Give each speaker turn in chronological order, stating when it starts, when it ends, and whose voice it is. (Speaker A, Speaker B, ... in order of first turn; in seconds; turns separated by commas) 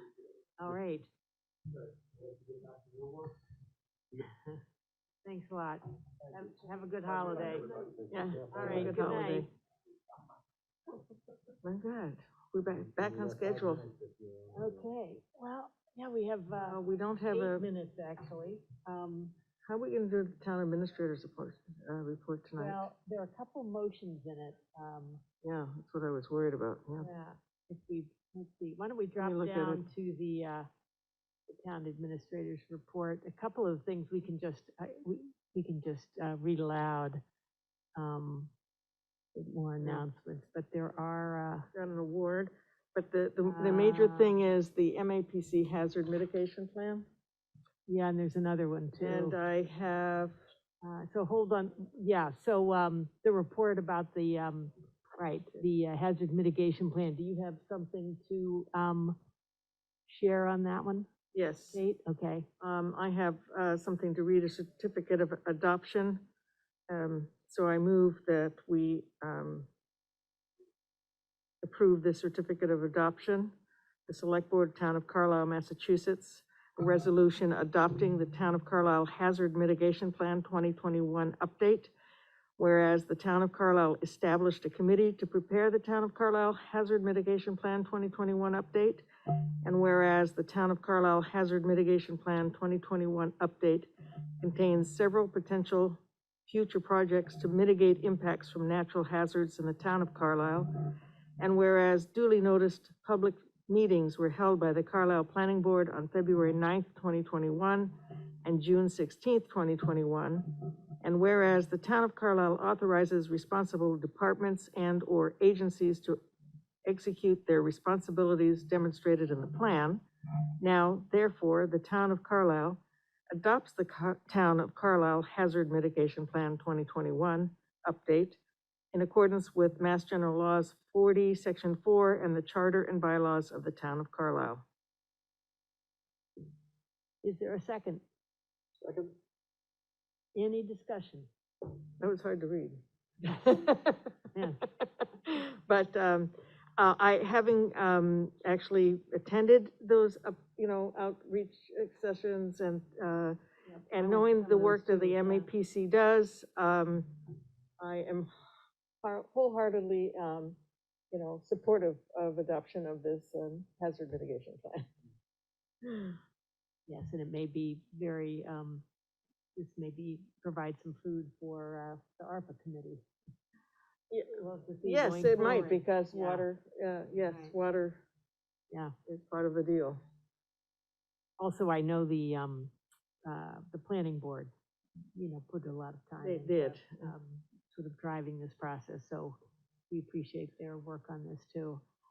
Speaker A: 0.6-1.1, Speaker B: 2.5-3.3, Speaker A: 5.2-7.8, Speaker B: 7.1-9.0, Speaker C: 8.1-9.5, Speaker A: 8.5-9.5, Speaker C: 11.6-13.8, Speaker B: 12.9-14.9, Speaker A: 14.5-19.3, Speaker C: 16.6-17.6, Speaker C: 19.7-22.9, Speaker A: 22.6-25.2, Speaker C: 25.4-27.1, Speaker A: 27.0-30.7, Speaker C: 29.2-29.8, Speaker A: 31.5-37.2, Speaker A: 38.0-38.5, Speaker A: 39.3-41.7, Speaker C: 41.7-47.0, Speaker A: 43.4-44.4, Speaker A: 47.9-49.4, Speaker C: 49.0-50.3, Speaker A: 50.8-59.2, Speaker A: 60.0-61.1, Speaker C: 61.3-61.8, Speaker A: 61.7-62.5, Speaker C: 62.6-66.2, Speaker C: 66.9-69.7, Speaker C: 71.6-73.5, Speaker C: 74.1-81.9, Speaker C: 82.6-89.0, Speaker C: 89.6-93.9, Speaker C: 94.4-110.5, Speaker C: 111.0-116.2, Speaker C: 116.8-120.0, Speaker C: 120.6-122.8, Speaker C: 123.3-128.4, Speaker C: 128.9-134.6, Speaker A: 137.2-138.0, Speaker B: 138.8-139.1, Speaker A: 140.3-141.3, Speaker C: 142.0-142.8, Speaker A: 143.2-143.7, Speaker C: 143.5-144.1, Speaker A: 144.3-144.6, Speaker C: 145.2-153.4, Speaker A: 153.7-155.5, Speaker C: 153.9-157.1, Speaker C: 157.8-158.3, Speaker C: 159.0-160.6, Speaker C: 161.1-164.8, Speaker C: 165.8-166.2, Speaker A: 166.9-168.8, Speaker A: 169.6-173.0, Speaker A: 174.1-176.4, Speaker C: 174.8-178.0, Speaker A: 177.2-177.5, Speaker C: 179.1-180.0, Speaker A: 181.4-182.7, Speaker A: 183.2-184.5, Speaker A: 185.1-189.4, Speaker C: 186.2-187.1, Speaker A: 189.9-191.8